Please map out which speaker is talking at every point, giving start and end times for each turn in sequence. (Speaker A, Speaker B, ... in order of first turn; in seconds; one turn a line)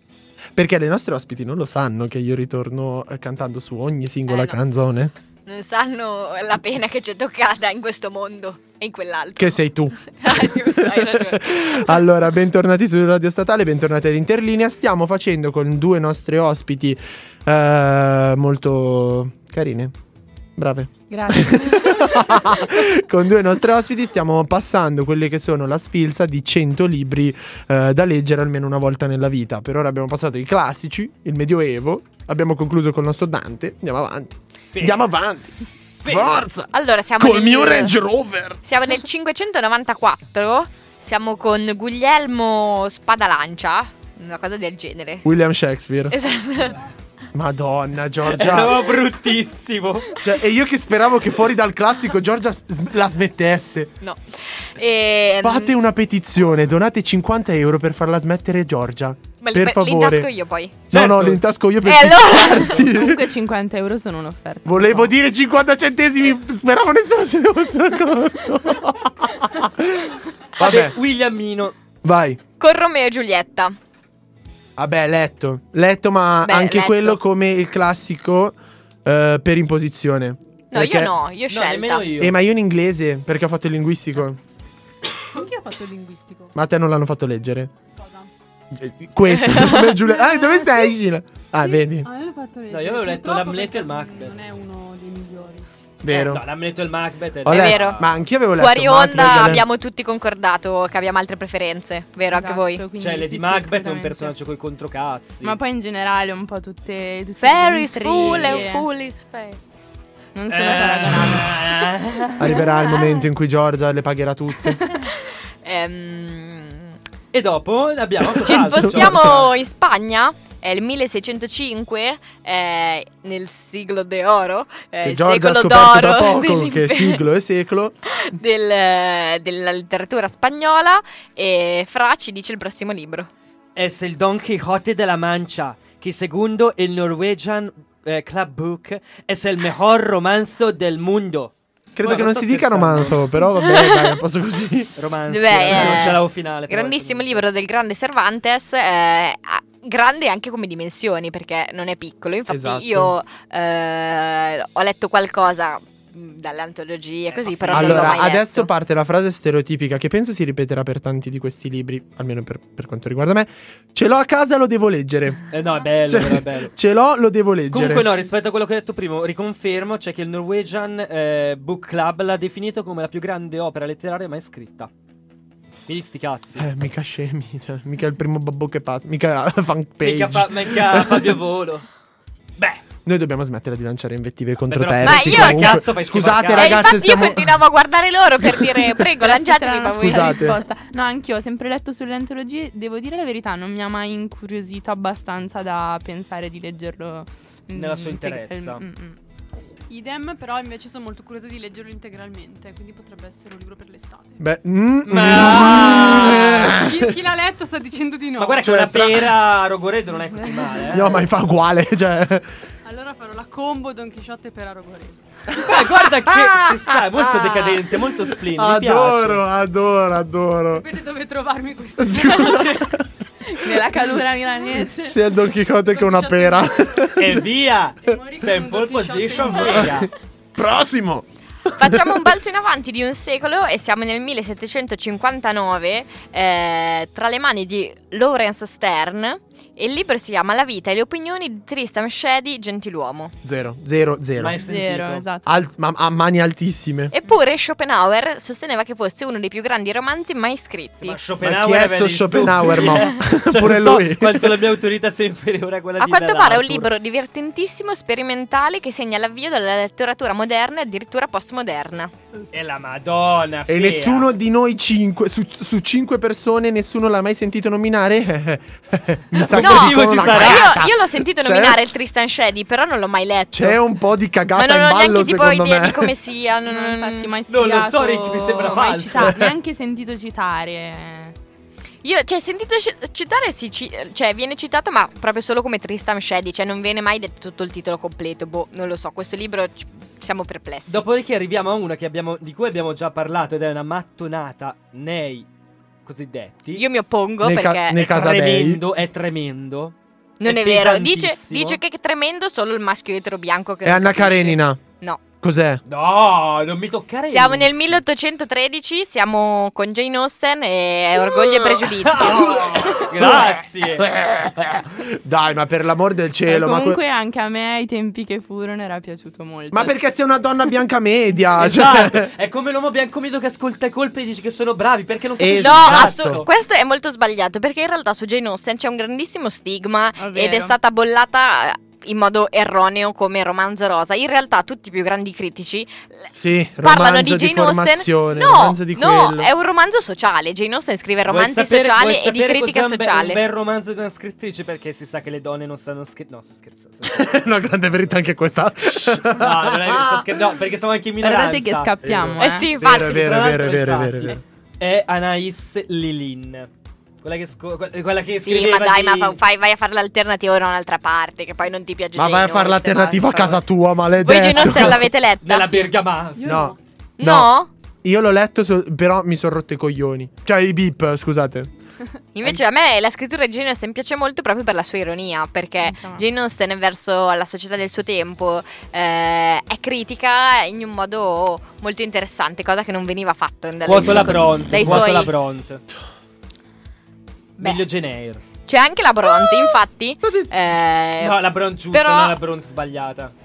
Speaker A: 0.6-5.1
Speaker B: 4.3-4.6
Speaker B: 5.5-11.9
Speaker A: 9.4-19.9
Speaker A: 20.6-38.6
Speaker C: 21.1-22.4
Speaker D: 34.7-35.1
Speaker D: 36.0-36.4
Speaker B: 36.7-38.0
Speaker B: 38.7-45.3
Speaker A: 45.2-46.1
Speaker B: 46.1-46.8
Speaker A: 47.3-48.9
Speaker D: 48.3-50.2
Speaker A: 50.2-53.9
Speaker B: 54.0-55.7
Speaker A: 55.4-60.3
Speaker B: 59.4-60.8
Speaker A: 60.9-63.3
Speaker D: 60.9-61.4
Speaker B: 61.8-62.8
Speaker C: 62.8-65.1
Speaker A: 64.7-71.0
Speaker D: 70.6-71.8
Speaker A: 72.0-72.4
Speaker B: 72.6-73.8
Speaker A: 74.8-81.1
Speaker B: 76.5-77.2
Speaker B: 80.7-82.1
Speaker D: 81.5-82.4
Speaker A: 82.2-84.4
Speaker E: 85.3-86.5
Speaker A: 86.5-87.7
Speaker E: 87.9-88.3
Speaker A: 88.7-92.1
Speaker B: 89.5-89.9
Speaker E: 90.3-90.8
Speaker E: 91.6-95.7
Speaker D: 92.7-94.4
Speaker A: 96.0-96.4
Speaker D: 96.1-98.2
Speaker A: 97.5-99.7
Speaker B: 97.5-98.0
Speaker B: 98.5-102.8
Speaker C: 102.3-104.3
Speaker D: 103.0-105.5
Speaker C: 105.4-108.9
Speaker B: 107.4-109.6
Speaker C: 110.3-112.0
Speaker D: 110.5-112.7
Speaker A: 112.4-114.8
Speaker B: 115.6-117.0
Speaker D: 117.3-119.5
Speaker A: 118.4-119.3
Speaker B: 118.4-127.2
Speaker A: 125.0-128.0
Speaker B: 128.1-133.3
Speaker D: 133.8-143.2
Speaker A: 141.9-144.9
Speaker B: 143.6-144.1
Speaker D: 145.0-147.4
Speaker B: 145.3-158.7
Speaker A: 145.6-146.2
Speaker A: 152.5-153.1
Speaker D: 157.3-158.3
Speaker A: 157.7-165.4
Speaker D: 165.5-166.7
Speaker A: 166.1-168.1
Speaker D: 167.7-174.9
Speaker D: 175.9-176.7
Speaker A: 176.6-181.4
Speaker D: 180.0-181.9
Speaker A: 183.1-187.6
Speaker D: 184.7-186.9
Speaker B: 185.0-185.8
Speaker B: 186.5-190.4
Speaker A: 188.4-189.0
Speaker C: 189.2-199.2
Speaker A: 190.0-190.6
Speaker D: 197.7-198.8
Speaker E: 199.9-204.4
Speaker A: 204.4-207.1
Speaker D: 205.1-206.7
Speaker E: 205.7-208.7
Speaker D: 208.4-211.2
Speaker A: 208.6-209.3
Speaker A: 210.9-212.5
Speaker E: 212.8-215.2
Speaker D: 215.5-219.4
Speaker A: 216.2-220.9
Speaker E: 220.7-222.9
Speaker A: 222.0-223.0
Speaker C: 223.5-225.2
Speaker A: 225.0-227.5
Speaker E: 225.9-226.9
Speaker D: 227.2-230.1
Speaker E: 228.0-230.1
Speaker A: 229.7-232.2
Speaker B: 231.8-243.3
Speaker A: 243.4-244.6
Speaker D: 244.4-245.2
Speaker C: 244.6-245.5
Speaker A: 245.5-247.1
Speaker B: 247.1-251.2
Speaker D: 251.0-256.9
Speaker A: 251.4-254.7
Speaker B: 256.0-262.1
Speaker D: 262.5-264.3
Speaker A: 263.7-271.8
Speaker D: 269.4-270.7
Speaker B: 269.5-273.8
Speaker A: 273.5-276.1
Speaker B: 274.5-277.3
Speaker C: 276.7-281.4
Speaker D: 277.5-279.4
Speaker A: 279.2-279.5
Speaker B: 282.0-291.0
Speaker D: 290.9-295.5
Speaker D: 296.1-296.8
Speaker B: 296.7-298.1
Speaker A: 297.4-298.8
Speaker D: 298.0-301.8
Speaker B: 300.4-305.2
Speaker A: 303.8-304.8
Speaker A: 305.4-305.8
Speaker D: 305.9-308.0
Speaker B: 307.3-312.5
Speaker D: 311.4-314.1
Speaker A: 312.3-317.0
Speaker C: 316.5-320.0
Speaker A: 319.7-322.3
Speaker D: 321.6-326.5
Speaker A: 325.4-326.4
Speaker B: 325.6-336.3
Speaker C: 330.2-330.8
Speaker A: 336.3-339.5
Speaker B: 336.8-343.4
Speaker D: 341.3-347.5
Speaker A: 347.0-350.3
Speaker D: 348.9-351.9
Speaker C: 351.2-352.7
Speaker A: 352.0-354.4
Speaker B: 352.4-353.4
Speaker D: 352.9-356.7
Speaker D: 357.2-359.4
Speaker B: 358.4-363.6
Speaker A: 362.2-365.1
Speaker B: 364.2-365.9
Speaker D: 365.4-366.6
Speaker E: 366.4-366.8
Speaker A: 366.4-367.5
Speaker B: 367.2-367.7
Speaker A: 368.0-371.7
Speaker B: 372.4-385.4
Speaker C: 375.8-376.2
Speaker D: 383.9-385.8
Speaker A: 384.1-385.2
Speaker D: 387.6-388.4
Speaker B: 388.7-391.4
Speaker A: 390.2-390.5
Speaker D: 391.2-393.3
Speaker B: 391.9-392.4